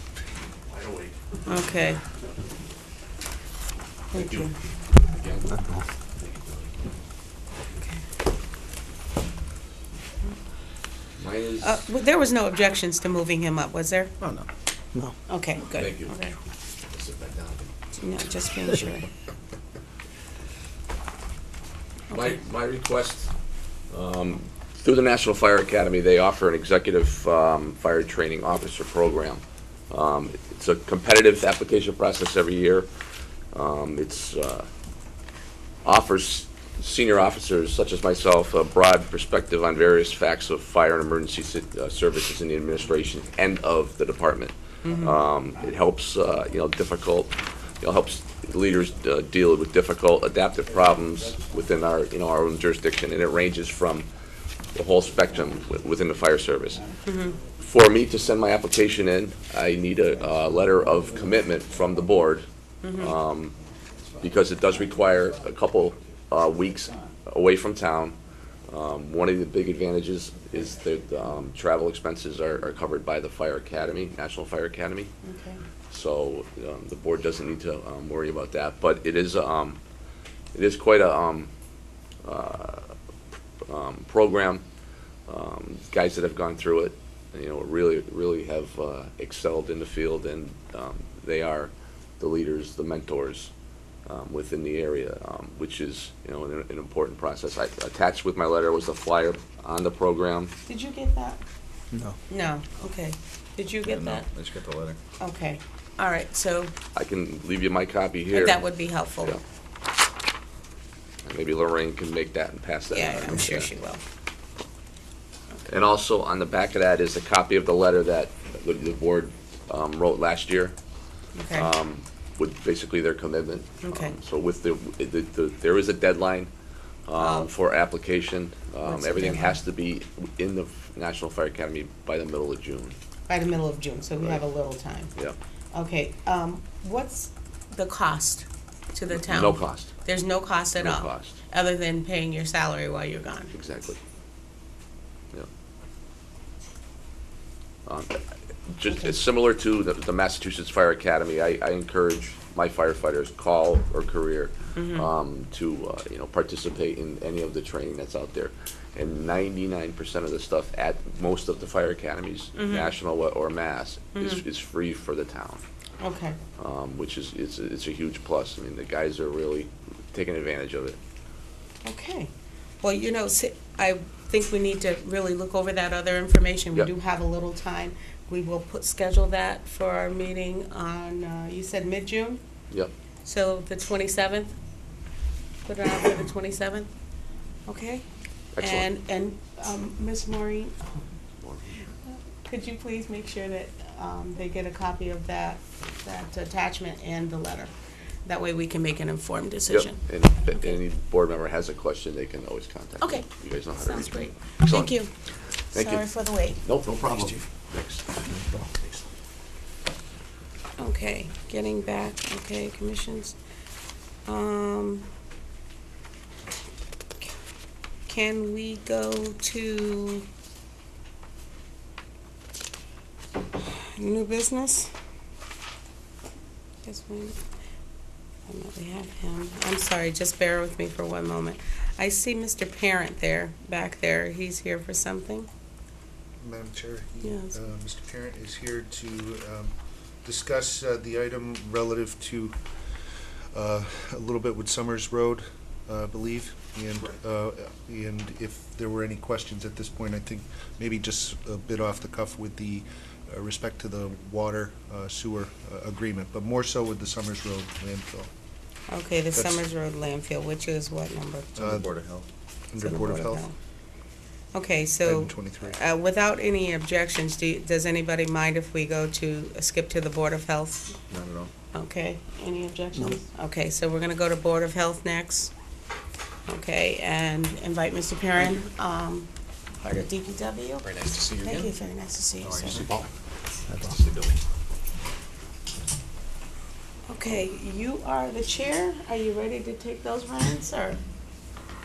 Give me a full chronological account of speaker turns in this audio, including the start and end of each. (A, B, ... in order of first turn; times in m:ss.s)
0:00.7-0:01.2 A
0:01.5-0:02.0 B
0:04.1-0:04.5 B
0:04.1-0:06.7 A
0:11.2-0:11.8 A
0:11.6-0:14.2 B
0:15.3-0:16.4 B
0:15.7-0:16.1 A
0:16.9-0:17.7 A
0:18.0-0:19.1 B
0:22.1-0:22.4 B
0:22.1-0:23.3 A
0:23.9-0:32.9 A
0:33.5-0:34.7 A
0:35.8-0:54.1 A
0:44.8-0:45.2 B
0:54.8-0:56.8 A
0:57.0-0:57.4 B
0:57.6-1:02.5 A
1:02.8-1:03.2 B
1:03.0-1:03.6 A
1:04.2-1:08.2 A
1:08.7-1:15.1 A
1:15.2-1:15.6 B
1:15.9-1:19.8 A
1:20.5-1:21.5 A
1:22.2-1:23.0 A
1:23.7-1:24.6 A
1:25.3-1:33.5 A
1:34.1-1:40.5 A
1:40.7-1:41.4 B
1:42.3-1:44.3 B
1:43.8-1:45.0 C
1:45.2-1:46.7 B
1:47.0-1:48.6 A
1:48.3-1:49.4 B
1:51.2-1:53.7 A
1:52.9-1:54.0 B
1:55.7-2:00.8 A
2:01.4-2:01.7 B
2:01.5-2:06.5 A
2:03.8-2:04.2 B
2:07.1-2:13.0 A
2:07.2-2:07.5 B
2:08.8-2:09.6 B
2:13.3-2:15.1 B
2:15.7-2:23.5 B
2:19.1-2:19.9 A
2:20.8-2:21.4 A
2:23.5-2:24.0 A
2:27.9-2:45.6 A
2:28.9-2:29.2 B
2:34.8-2:35.1 B
2:42.6-2:42.9 B
2:44.2-2:44.4 B
2:46.0-2:46.4 B
2:46.6-2:51.0 A
2:51.8-3:02.4 B
3:03.2-3:04.5 B
3:05.6-3:06.9 B
3:07.7-3:08.0 B
3:08.6-3:08.9 A
3:08.6-3:10.8 B
3:11.4-3:11.8 A
3:12.1-3:17.7 B
3:18.2-3:20.8 B
3:19.7-3:24.9 A
3:23.0-3:25.1 B
3:25.7-3:26.1 A
3:25.7-3:26.6 B
3:26.6-3:29.0 A
3:30.8-3:33.4 B
3:34.3-3:35.1 B
3:38.1-3:40.3 B
3:43.6-3:44.9 B
3:46.8-3:47.4 B
3:48.5-3:55.5 B
3:56.4-3:59.7 D
3:57.2-3:57.6 B
4:00.2-4:02.6 D
4:03.5-4:18.3 D
4:18.9-4:21.6 B
4:19.3-4:19.6 D
4:21.6-4:21.9 D
4:21.6-4:22.3 C
4:22.7-4:23.5 D
4:22.8-4:23.6 B
4:24.5-4:31.0 B
4:25.0-4:25.8 D
4:31.1-4:31.5 C
4:31.7-4:35.5 B
4:36.5-4:39.3 B
4:39.8-4:42.8 B
4:40.9-4:41.2 A
4:42.4-4:42.9 C
4:42.7-4:43.1 A
4:43.7-4:44.4 C
4:47.1-4:51.0 B